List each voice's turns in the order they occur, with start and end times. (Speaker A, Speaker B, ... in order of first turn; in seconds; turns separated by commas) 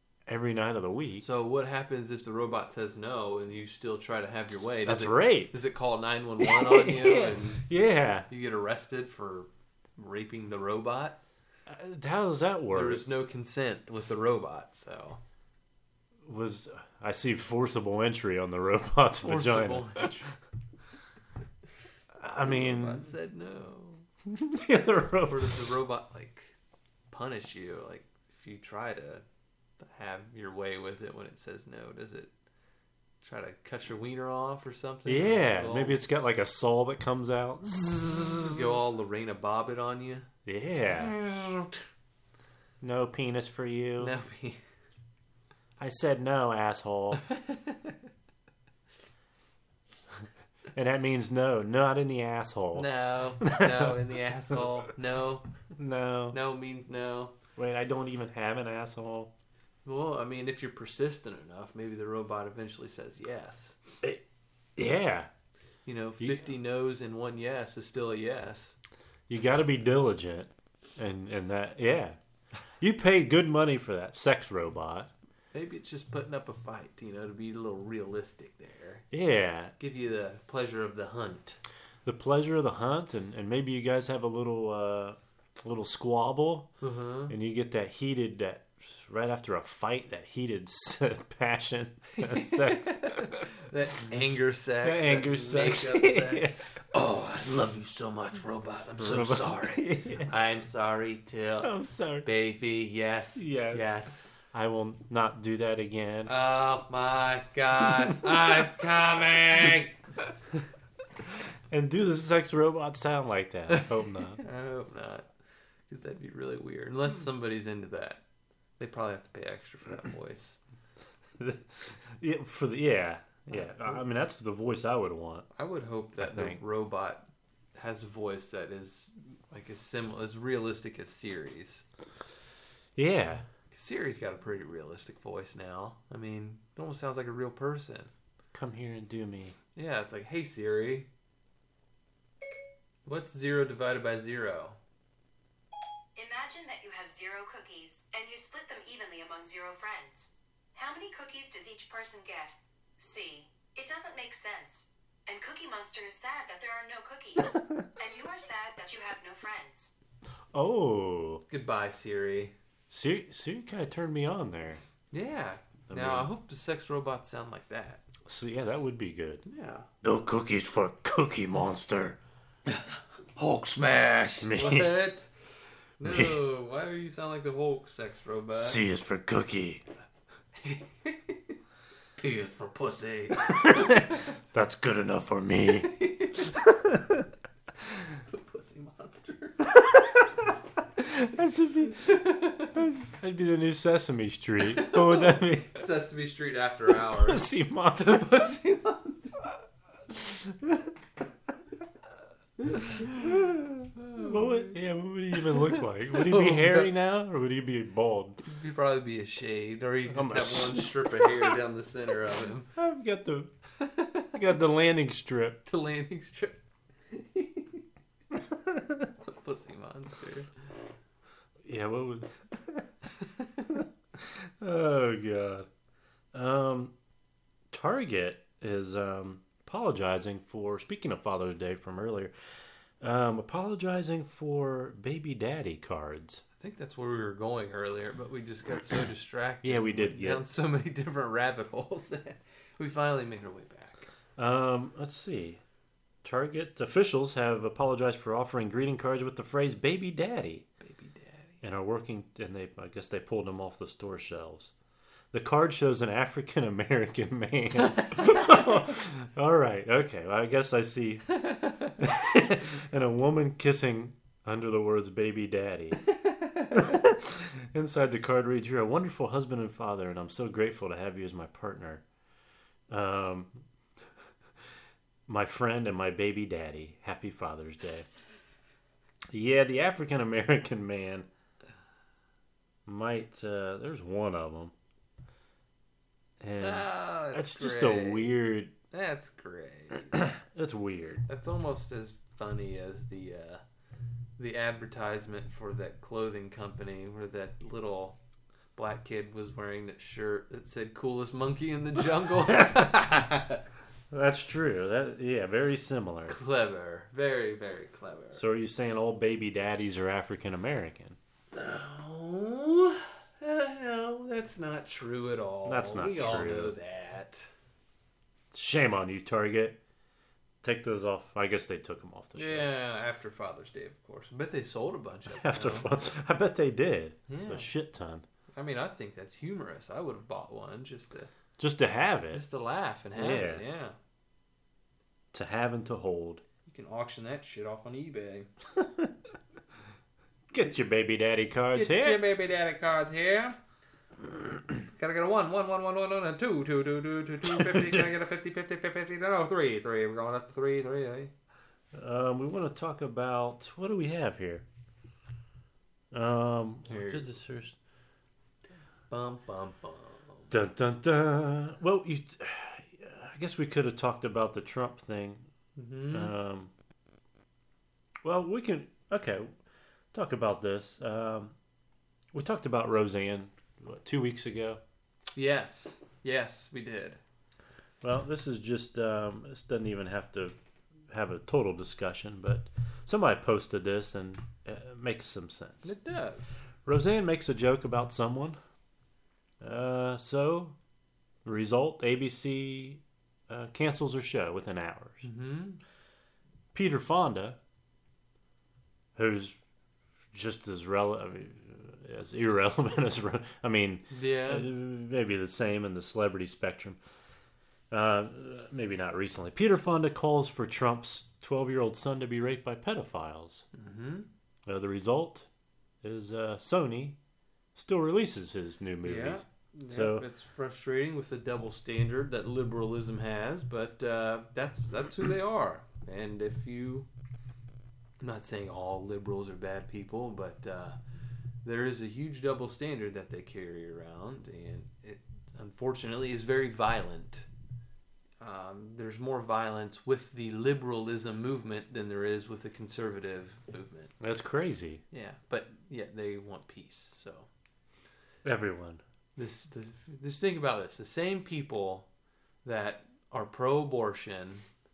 Speaker A: 0.3-1.3, Speaker B: 1.2-7.7, Speaker A: 4.5-5.5, Speaker A: 6.4-8.3, Speaker B: 8.3-11.2, Speaker A: 11.7-13.1, Speaker B: 12.7-15.2, Speaker A: 16.2-20.1, Speaker B: 19.2-20.3, Speaker A: 22.2-23.1, Speaker B: 22.4-24.1, Speaker A: 24.3-25.6, Speaker B: 25.3-26.6, Speaker B: 27.1-29.2, Speaker B: 29.8-32.3, Speaker B: 33.2-36.0, Speaker A: 35.1-38.6, Speaker B: 38.4-40.3, Speaker A: 40.5-41.1, Speaker B: 40.9-41.8, Speaker A: 42.8-44.1, Speaker B: 44.0-44.6, Speaker A: 45.8-47.2, Speaker B: 47.2-48.0, Speaker A: 50.7-54.9, Speaker B: 52.8-55.5, Speaker A: 55.8-56.4, Speaker B: 56.3-57.4, Speaker A: 57.6-59.3, Speaker B: 59.9-63.8, Speaker A: 64.8-65.3, Speaker B: 65.9-68.8, Speaker A: 69.3-72.2, Speaker A: 72.8-75.1, Speaker B: 75.5-79.1, Speaker A: 79.1-79.7, Speaker B: 79.8-81.6, Speaker A: 82.0-86.7, Speaker B: 86.8-87.3, Speaker A: 87.3-93.5, Speaker B: 92.1-101.7, Speaker A: 94.8-96.6, Speaker A: 99.0-100.3, Speaker A: 101.6-102.3, Speaker B: 102.2-104.3, Speaker A: 103.4-106.3, Speaker B: 106.3-110.0, Speaker A: 108.0-108.7, Speaker A: 109.5-109.8, Speaker A: 111.2-114.4, Speaker B: 113.7-115.3, Speaker B: 115.9-118.2, Speaker B: 118.8-120.6, Speaker A: 121.4-125.5, Speaker B: 123.5-124.0, Speaker B: 125.5-127.2, Speaker A: 126.2-126.6, Speaker B: 127.8-131.8, Speaker A: 133.0-133.4, Speaker B: 133.7-138.1, Speaker A: 138.5-139.6, Speaker B: 139.8-141.1, Speaker B: 143.1-144.8, Speaker C: 146.2-159.9, Speaker A: 157.4-157.9, Speaker A: 160.5-161.4, Speaker B: 161.5-162.5, Speaker A: 162.9-164.8, Speaker B: 165.1-168.1, Speaker A: 165.9-166.3, Speaker A: 168.2-169.4, Speaker B: 169.4-169.9, Speaker A: 170.0-172.2, Speaker B: 172.7-175.3, Speaker A: 174.4-175.0, Speaker B: 176.0-178.8, Speaker A: 176.0-176.4, Speaker A: 178.5-179.8, Speaker B: 180.6-181.5, Speaker B: 182.2-184.1, Speaker A: 183.4-187.3, Speaker B: 185.7-186.5, Speaker B: 188.1-189.6, Speaker A: 189.6-192.2, Speaker B: 192.0-192.8, Speaker A: 192.8-195.8, Speaker B: 194.8-197.5, Speaker A: 196.9-198.5, Speaker B: 198.0-199.5, Speaker A: 200.1-200.9, Speaker B: 202.6-203.3, Speaker A: 202.9-208.4, Speaker B: 204.0-204.8, Speaker B: 205.4-206.9, Speaker B: 208.4-212.7, Speaker A: 210.1-211.6, Speaker A: 212.8-213.5, Speaker B: 213.8-214.3, Speaker A: 214.3-215.6, Speaker B: 215.7-217.8, Speaker A: 218.3-219.1, Speaker B: 219.2-220.5, Speaker A: 221.6-222.9, Speaker A: 223.7-225.7, Speaker A: 226.3-226.9, Speaker A: 227.7-232.3, Speaker A: 233.0-236.4, Speaker B: 236.6-244.1, Speaker A: 239.6-240.4, Speaker A: 244.4-245.6, Speaker A: 246.2-250.7, Speaker B: 250.8-251.6, Speaker A: 251.6-254.7, Speaker A: 255.3-266.1, Speaker B: 266.4-266.7, Speaker A: 266.7-272.0, Speaker A: 272.9-273.6, Speaker A: 275.3-278.1, Speaker A: 279.3-281.3, Speaker A: 282.9-284.7, Speaker A: 286.4-288.7, Speaker B: 286.6-288.3, Speaker B: 288.9-290.2, Speaker A: 290.1-291.2, Speaker B: 291.3-293.6, Speaker B: 294.4-298.2, Speaker B: 298.8-303.6, Speaker A: 304.1-306.4, Speaker B: 306.3-308.4, Speaker A: 308.4-311.2, Speaker B: 311.5-317.5, Speaker A: 315.6-316.8, Speaker A: 318.5-319.8, Speaker A: 320.6-322.8, Speaker B: 322.4-325.9, Speaker A: 325.3-328.2, Speaker B: 327.3-327.7, Speaker B: 328.6-331.3, Speaker A: 331.6-332.4, Speaker B: 332.3-334.0, Speaker A: 333.1-333.6, Speaker A: 335.3-336.4, Speaker B: 336.6-338.5, Speaker A: 338.8-339.1, Speaker A: 340.5-342.2, Speaker B: 341.7-343.6, Speaker B: 344.9-351.3, Speaker A: 347.4-348.1, Speaker A: 351.9-354.6, Speaker A: 356.1-357.8, Speaker B: 356.9-357.2, Speaker B: 359.1-360.5, Speaker A: 360.5-365.4, Speaker B: 365.8-366.3, Speaker A: 366.1-366.7, Speaker A: 368.2-369.5, Speaker A: 370.1-371.6, Speaker A: 372.3-374.8, Speaker B: 375.4-377.2, Speaker A: 378.0-380.6, Speaker A: 381.1-385.9, Speaker B: 385.8-386.6, Speaker A: 386.9-388.6, Speaker A: 389.6-390.8, Speaker A: 391.4-395.2, Speaker B: 395.2-395.8, Speaker A: 396.7-397.6, Speaker A: 399.2-399.6, Speaker A: 400.3-407.0, Speaker B: 404.1-404.7, Speaker A: 407.9-413.7, Speaker B: 413.7-414.3, Speaker A: 414.7-415.5, Speaker A: 416.0-417.2, Speaker A: 417.8-420.2, Speaker B: 419.0-427.1, Speaker B: 428.2-431.0, Speaker B: 431.6-437.5, Speaker B: 438.4-444.1, Speaker A: 444.2-445.0, Speaker B: 445.1-447.5, Speaker A: 448.4-449.0, Speaker B: 449.4-452.1, Speaker B: 452.6-454.6